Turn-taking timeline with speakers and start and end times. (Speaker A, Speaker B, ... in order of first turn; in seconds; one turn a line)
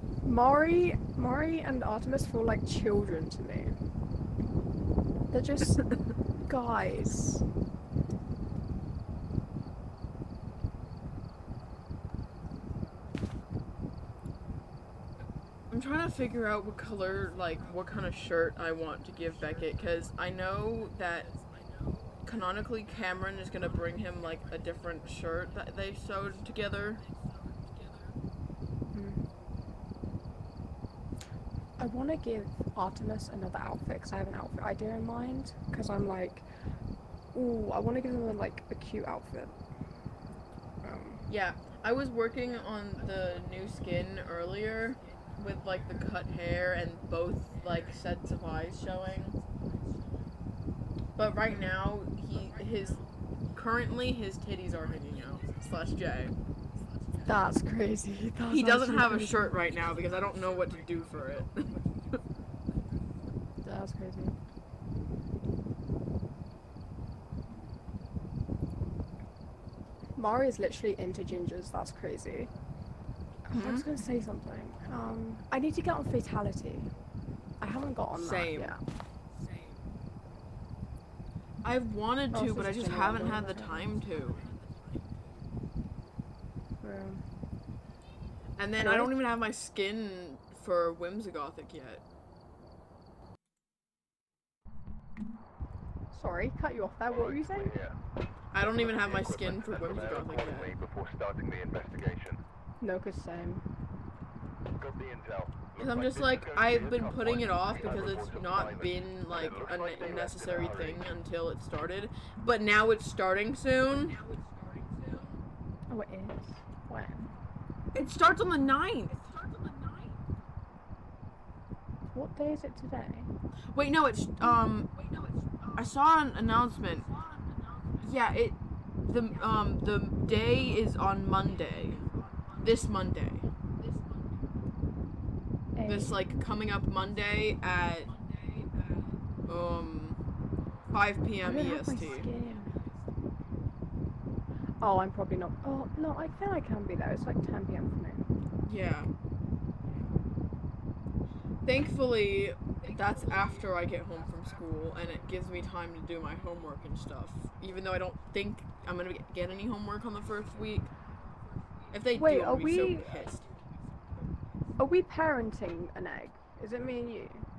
Speaker A: 0.2-3.8
Speaker A: 5.3-7.5
Speaker B: 15.7-21.3
Speaker B: 22.2-27.0
Speaker A: 28.9-29.2
Speaker A: 31.8-36.5
Speaker A: 37.3-39.5
Speaker A: 40.8-41.2
Speaker B: 41.3-49.4
Speaker B: 51.2-56.3
Speaker A: 57.2-59.5
Speaker B: 58.5-61.8
Speaker A: 63.6-64.4
Speaker A: 70.2-72.5
Speaker A: 73.5-76.9
Speaker B: 73.5-73.9
Speaker A: 77.6-78.8
Speaker B: 78.1-78.8
Speaker B: 81.6-84.5
Speaker A: 82.3-83.9
Speaker A: 86.8-87.2
Speaker B: 88.6-92.0
Speaker A: 88.8-89.1
Speaker A: 96.1-97.8
Speaker C: 97.1-98.0
Speaker B: 98.5-100.7
Speaker C: 98.6-102.4
Speaker A: 102.8-103.7
Speaker C: 104.8-111.0
Speaker B: 105.8-114.2
Speaker A: 115.9-117.2
Speaker B: 117.9-119.3
Speaker A: 122.1-123.3
Speaker B: 123.7-124.9
Speaker B: 125.8-127.1
Speaker B: 128.0-132.0
Speaker B: 132.6-133.5
Speaker A: 135.8-136.2
Speaker B: 135.9-138.2
Speaker B: 139.5-140.2
Speaker B: 140.9-142.3
Speaker A: 141.4-142.8
Speaker A: 144.8-148.3
Speaker B: 148.7-149.1
Speaker B: 151.7-160.9
Speaker B: 161.9-163.5
Speaker A: 162.2-163.2
Speaker A: 164.8-167.5